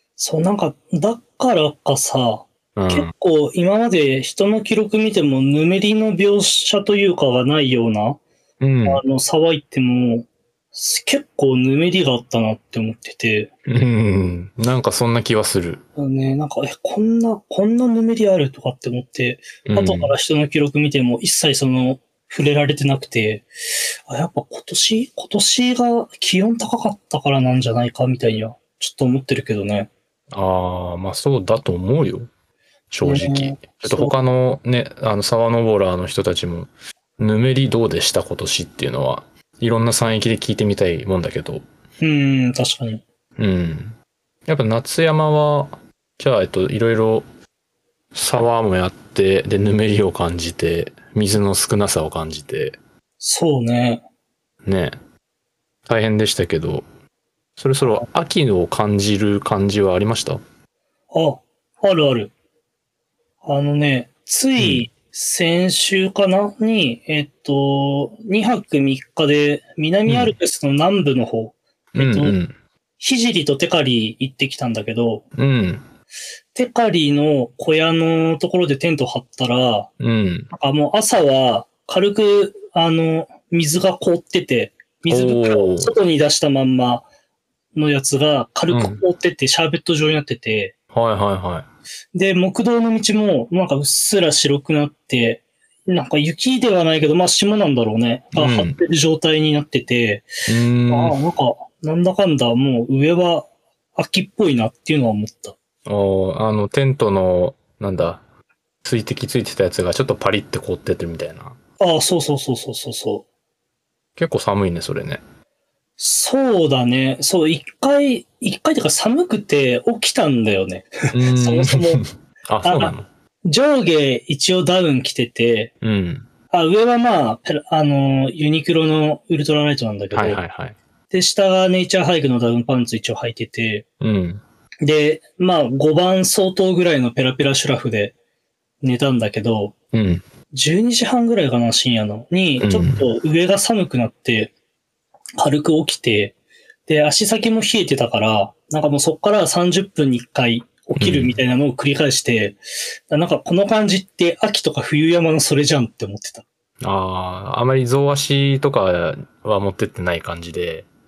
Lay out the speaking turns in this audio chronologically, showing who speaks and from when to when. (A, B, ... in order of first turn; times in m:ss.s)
0:00.2-0:08.2 A
0:02.8-0:03.1 B
0:08.6-0:09.0 B
0:08.8-0:13.5 A
0:13.7-0:15.8 B
0:16.0-0:23.5 A
0:19.7-0:20.2 B
0:24.1-0:29.9 A
0:30.3-0:32.3 B
0:32.9-0:41.6 B
0:33.0-0:34.2 A
0:42.0-0:43.0 A
0:43.4-0:44.0 B
0:44.5-0:47.3 B
0:48.1-0:52.8 B
0:53.2-0:54.0 A
0:54.6-0:55.0 B
0:55.9-0:56.9 B
0:57.6-1:00.4 B
1:01.1-1:02.3 A
1:03.4-1:12.4 A
1:04.6-1:04.9 B
1:10.1-1:10.4 B
1:12.0-1:12.6 B
1:13.0-1:15.2 A
1:15.4-1:15.8 B
1:16.5-1:19.9 A
1:20.0-1:20.5 B
1:20.5-1:27.1 A
1:25.1-1:25.9 B
1:27.8-1:30.7 A
1:28.7-1:29.0 B
1:30.9-1:31.7 B
1:32.2-1:40.3 A
1:38.3-1:38.8 B
1:40.5-1:41.2 B
1:40.9-1:45.6 A
1:45.9-1:48.2 B
1:48.8-1:51.6 B
1:51.8-1:53.2 A
1:54.2-1:55.2 B
1:56.0-2:02.0 A
2:01.1-2:03.1 B
2:02.6-2:02.9 A
2:03.4-2:05.7 A
2:05.8-2:06.3 B
2:06.5-2:10.4 A
2:10.1-2:10.8 B
2:11.1-2:13.8 A
2:14.0-2:14.4 B
2:14.8-2:18.1 A
2:18.8-2:19.7 A
2:19.9-2:20.2 B
2:20.5-2:24.5 A
2:22.6-2:23.1 B
2:25.4-2:26.4 A
2:26.9-2:32.6 A
2:31.0-2:31.4 B
2:33.1-2:36.4 A
2:36.8-2:40.9 B